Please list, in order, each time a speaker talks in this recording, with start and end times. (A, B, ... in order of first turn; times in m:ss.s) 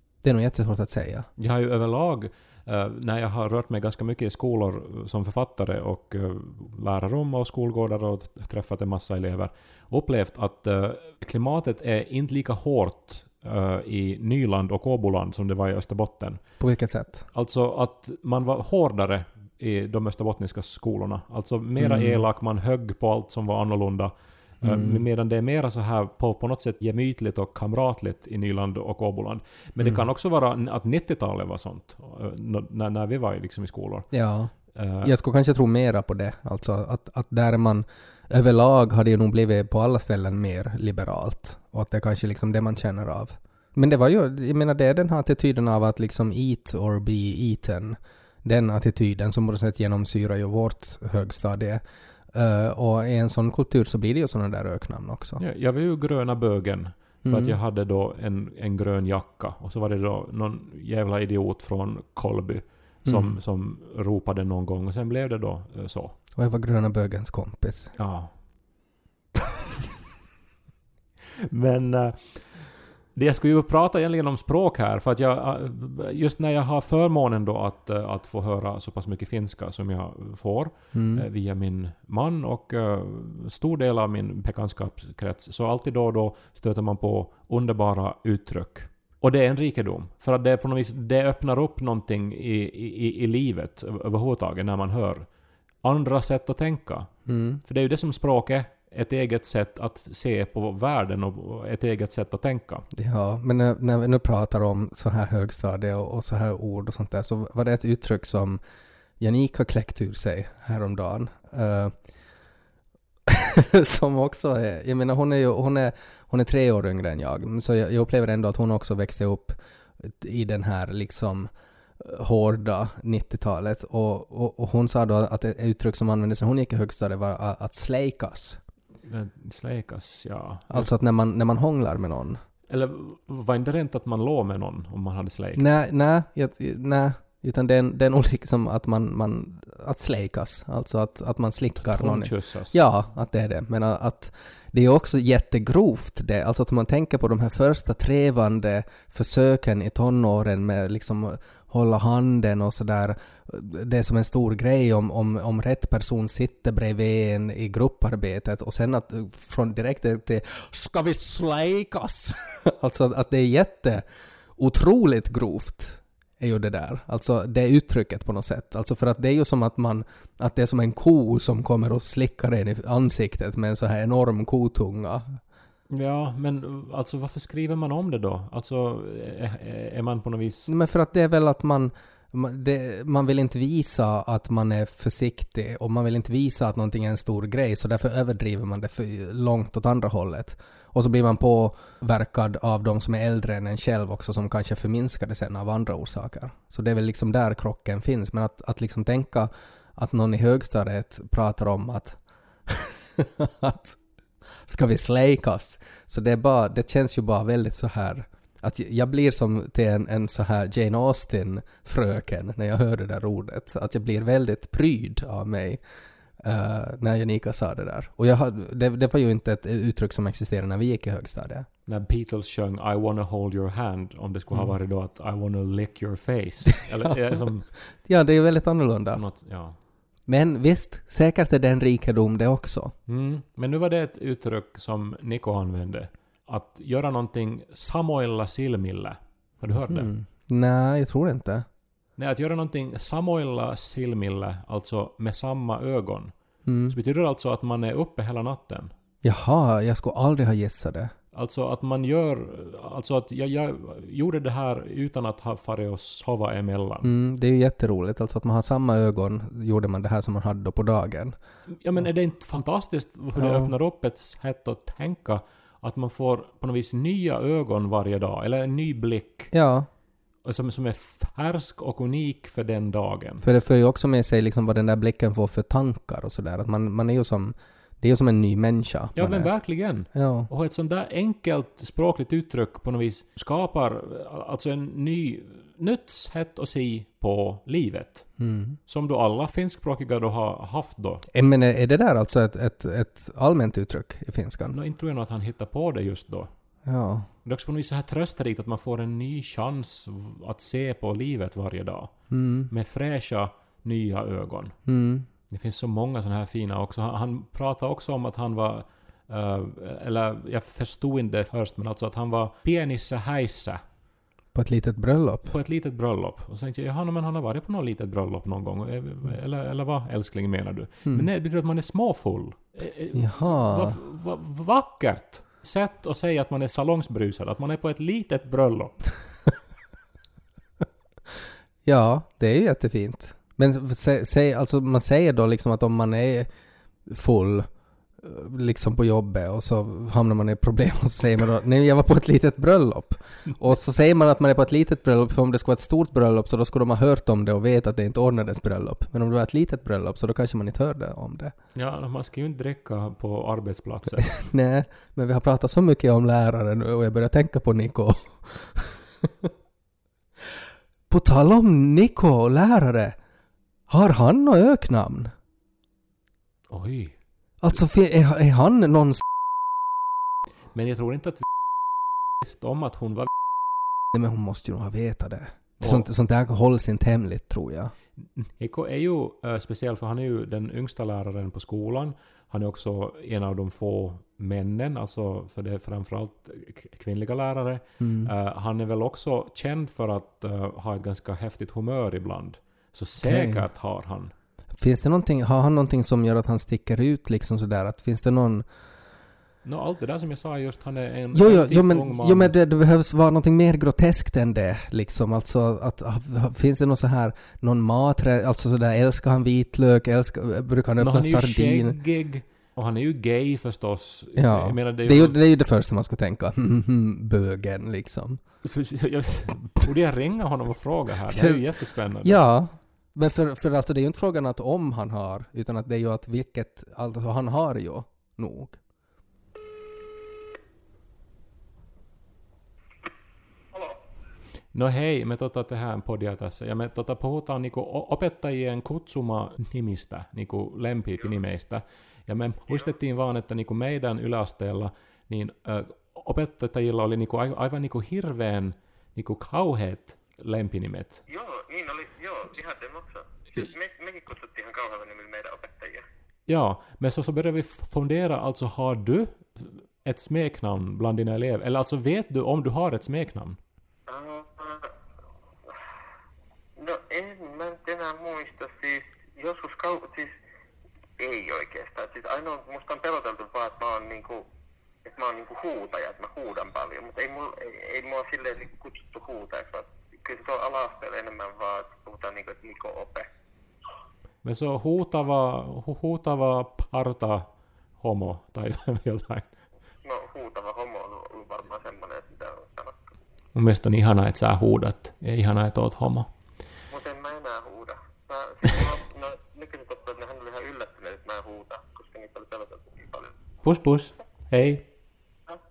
0:00.2-0:01.3 A
0:01.4-0:16.4 B
0:16.6-0:17.3 A
0:17.3-0:34.1 B
0:21.8-0:22.2 A
0:24.6-0:25.0 A
0:34.1-0:55.4 A
0:34.7-0:35.1 B
0:55.4-1:06.2 B
0:57.2-0:57.6 A
1:03.0-1:03.4 A
1:06.3-1:07.9 A
1:08.0-1:08.3 B
1:11.5-1:35.3 B
1:20.9-1:21.2 A
1:35.8-1:37.1 B
1:37.3-1:37.6 A
1:37.6-1:42.9 B
1:42.9-1:48.6 A
1:49.2-1:51.9 A
1:53.3-2:08.6 A
2:09.1-2:10.9 B
2:10.7-2:12.4 A
2:12.7-2:15.7 B
2:15.6-2:44.0 A
2:21.8-2:22.8 B
2:44.6-2:55.4 A
2:55.9-3:00.7 B
3:00.7-3:24.0 A
3:24.7-3:35.8 A
3:36.4-3:41.7 A
3:41.9-3:47.7 B
3:48.0-3:49.2 A
3:49.1-3:49.8 B
3:50.3-3:52.9 A
3:53.1-4:00.1 B
3:59.9-4:01.7 A
4:02.2-4:06.3 B
4:06.7-4:06.9 A
4:06.9-4:08.9 B
4:09.2-4:11.1 A
4:11.3-4:17.1 B
4:17.0-4:21.4 A
4:21.7-4:29.5 B
4:23.4-4:23.7 A
4:29.5-4:29.9 A
4:30.4-4:33.4 B
4:33.4-4:39.5 A
4:39.2-4:48.3 B
4:40.1-4:40.5 A
4:48.4-4:48.8 A
4:48.9-4:51.2 B
4:51.3-4:54.8 A
4:54.7-4:56.5 B
4:56.9-4:57.3 A
4:57.4-5:02.1 B
5:02.3-5:02.7 A
5:02.7-5:04.8 B
5:04.9-5:05.3 A
5:05.5-5:13.8 B
5:14.5-5:15.5 A
5:15.5-5:29.0 B
5:23.1-5:24.0 A
5:31.8-5:36.5 A
5:37.1-5:37.7 A
5:38.2-5:51.5 A
5:51.8-5:54.3 B
5:54.2-5:59.5 A
6:01.1-6:03.2 A
6:03.9-6:05.3 A
6:06.7-6:07.2 B
6:07.6-6:09.2 A
6:10.7-6:11.4 B
6:12.4-6:13.3 B
6:14.1-6:17.9 A
6:15.8-6:16.1 B
6:18.4-6:34.3 B
6:28.0-6:28.3 A
6:33.2-6:33.6 A
6:34.8-6:38.7 A
6:39.6-6:42.5 B
6:41.3-6:52.0 A
6:51.0-6:55.4 B
6:54.4-6:58.4 A
6:58.6-7:02.4 B
7:01.3-7:01.6 A
7:02.2-7:08.8 A
7:14.7-7:31.2 B
7:31.3-7:36.0 C
7:36.5-7:43.6 B
7:44.1-7:44.9 C
7:46.8-7:50.3 C
7:51.2-7:54.4 C
7:55.0-8:03.3 C
8:04.4-8:07.5 B
8:08.0-8:09.5 B
8:10.0-8:13.0 C
8:13.6-8:16.3 B
8:16.9-8:23.3 C
8:23.6-8:24.9 B